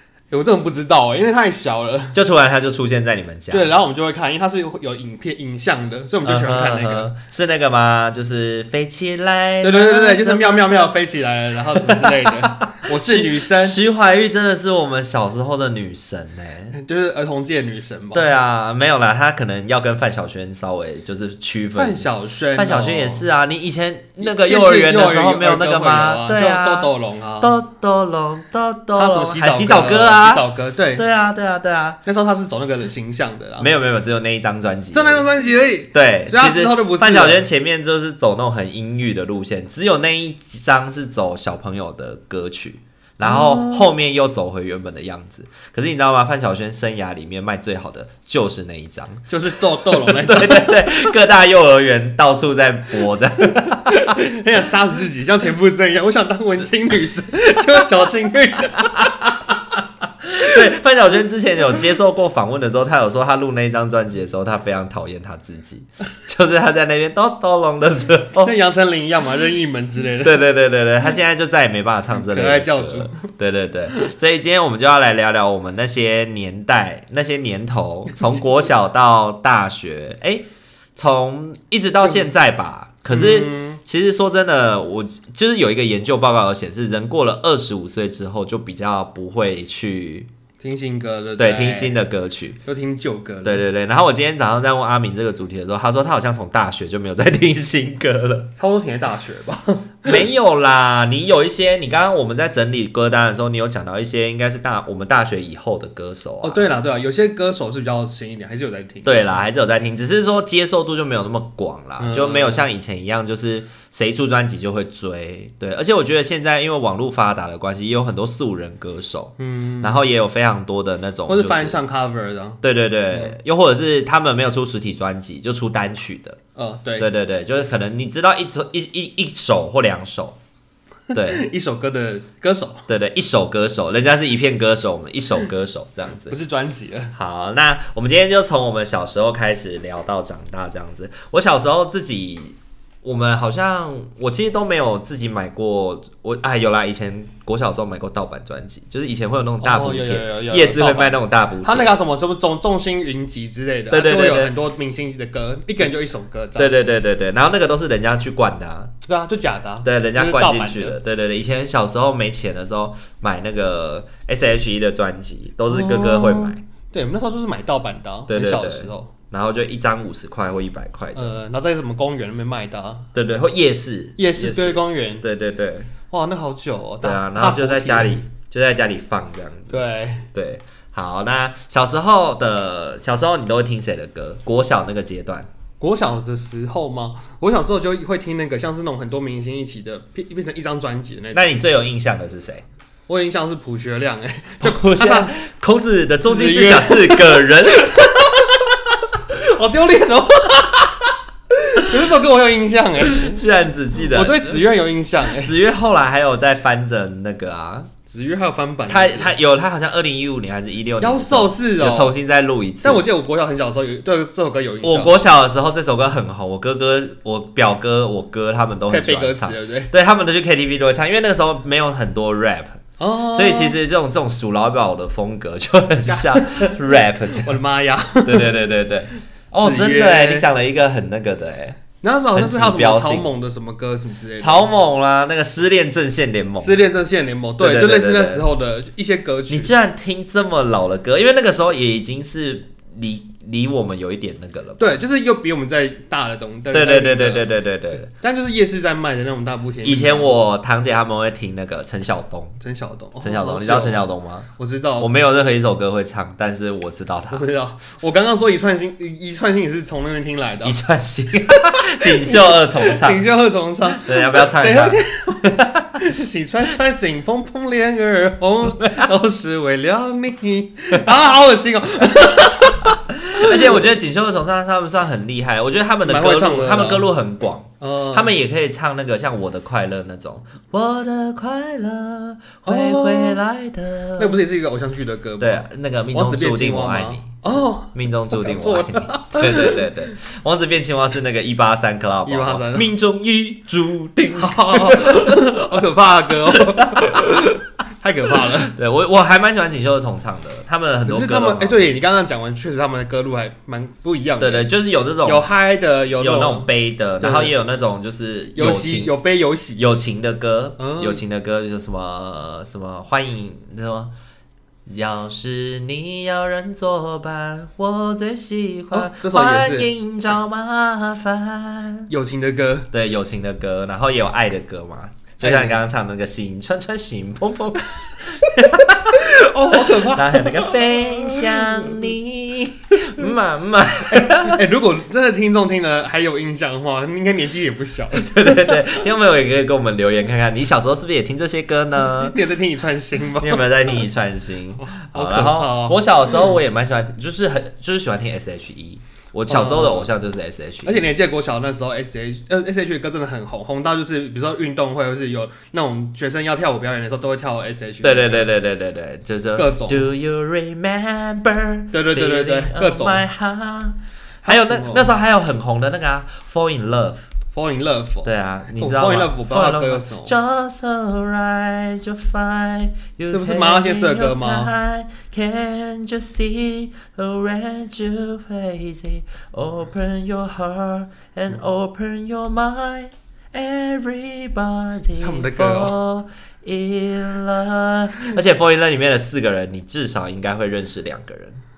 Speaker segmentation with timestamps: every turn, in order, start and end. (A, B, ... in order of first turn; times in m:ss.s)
0:00.3-0:02.2 A
0:02.1-0:03.7 B
0:03.5-0:07.1 A
0:06.2-0:11.0 B
0:09.6-0:13.8 A
0:11.5-0:16.8 B
0:16.7-0:18.3 A
0:18.1-0:32.0 B
0:21.7-0:23.3 A
0:24.2-0:27.5 A
0:28.9-0:31.0 A
0:32.0-0:33.7 A
0:33.6-0:35.3 B
0:34.9-0:37.4 A
0:35.9-0:54.2 B
0:43.2-0:43.9 A
0:49.3-0:50.9 A
0:53.8-0:59.5 A
0:58.7-1:08.5 B
1:08.4-1:10.4 A
1:10.2-1:30.3 B
1:12.1-1:13.3 A
1:23.1-1:23.8 A
1:30.6-1:31.9 A
1:31.4-1:32.6 B
1:32.6-1:33.6 A
1:33.4-1:38.5 B
1:38.6-1:40.2 A
1:40.0-1:46.7 B
1:46.4-1:49.4 A
1:49.0-2:01.8 B
1:52.0-1:52.6 A
1:59.4-2:00.0 A
2:01.3-2:03.4 A
2:02.6-2:06.4 B
2:06.6-2:07.1 A
2:07.0-2:10.4 B
2:11.1-2:11.5 B
2:11.2-2:12.8 A
2:12.9-2:16.4 B
2:16.3-2:17.1 A
2:17.1-2:31.9 B
2:29.6-2:36.7 A
2:33.9-2:34.5 B
2:36.6-2:38.9 B
2:39.0-2:41.0 A
2:39.8-2:46.6 B
2:45.7-2:49.1 A
2:48.3-2:51.4 B
2:51.1-2:53.1 A
2:53.1-2:55.9 B
2:54.2-2:55.2 A
2:56.1-2:58.2 A
2:57.0-2:59.8 B
2:59.7-3:00.3 A
3:00.3-3:05.5 B
3:05.8-3:11.5 A
3:11.3-3:12.6 B
3:13.1-3:15.3 A
3:14.6-3:18.3 B
3:16.2-3:23.4 A
3:23.0-3:24.7 B
3:24.0-3:25.5 A
3:25.2-3:27.9 B
3:28.1-3:29.3 A
3:28.9-3:33.0 B
3:31.0-3:32.1 A
3:32.8-3:35.2 A
3:34.8-3:42.8 B
3:38.9-3:39.9 A
3:43.0-3:43.8 A
3:43.3-3:47.6 B
3:46.0-3:46.7 A
3:47.3-3:48.6 A
3:48.2-3:51.8 B
3:49.6-3:50.5 A
3:52.0-3:54.7 A
3:52.3-3:53.3 B
3:54.4-3:56.8 B
3:56.6-3:59.7 A
3:57.6-3:58.4 B
3:59.5-4:05.0 B
4:04.8-4:07.5 A
4:06.7-4:08.1 B
4:08.1-4:10.4 A
4:09.8-4:12.6 B
4:12.6-4:14.0 A
4:13.2-4:14.5 B
4:14.6-4:15.1 A
4:15.0-4:17.5 B
4:17.3-4:20.8 A
4:20.6-4:23.3 B
4:21.5-4:33.8 A
4:23.9-4:26.0 B
4:28.6-4:29.1 B
4:33.3-4:44.4 B
4:36.0-4:37.1 A
4:37.8-4:38.3 A
4:42.6-4:43.4 A
4:44.2-4:49.9 A
4:45.4-4:55.7 B
4:52.2-4:52.9 A
4:54.3-4:58.7 A
4:56.5-4:57.5 B
4:58.4-5:02.0 B
5:01.0-5:04.7 A
5:04.4-5:05.5 B
5:05.2-5:07.5 A
5:06.2-5:09.1 B
5:08.6-5:09.9 A
5:09.8-5:14.1 B
5:10.8-5:11.2 A
5:14.8-5:22.1 B
5:18.9-5:19.9 A
5:22.1-5:22.9 A
5:22.9-5:34.6 B
5:25.4-5:25.8 A
5:29.1-5:32.1 A
5:34.2-5:38.5 A
5:38.1-5:42.4 B
5:42.0-5:44.0 A
5:43.4-5:51.1 B
5:44.8-5:46.5 A
5:49.5-5:50.1 A
5:50.8-5:58.4 A
5:58.0-6:07.3 B
5:59.6-6:00.1 A
6:01.9-6:03.2 A
6:04.4-6:05.1 A
6:07.5-6:10.3 A
6:08.2-6:31.6 B
6:13.3-6:14.7 A
6:25.1-6:26.0 A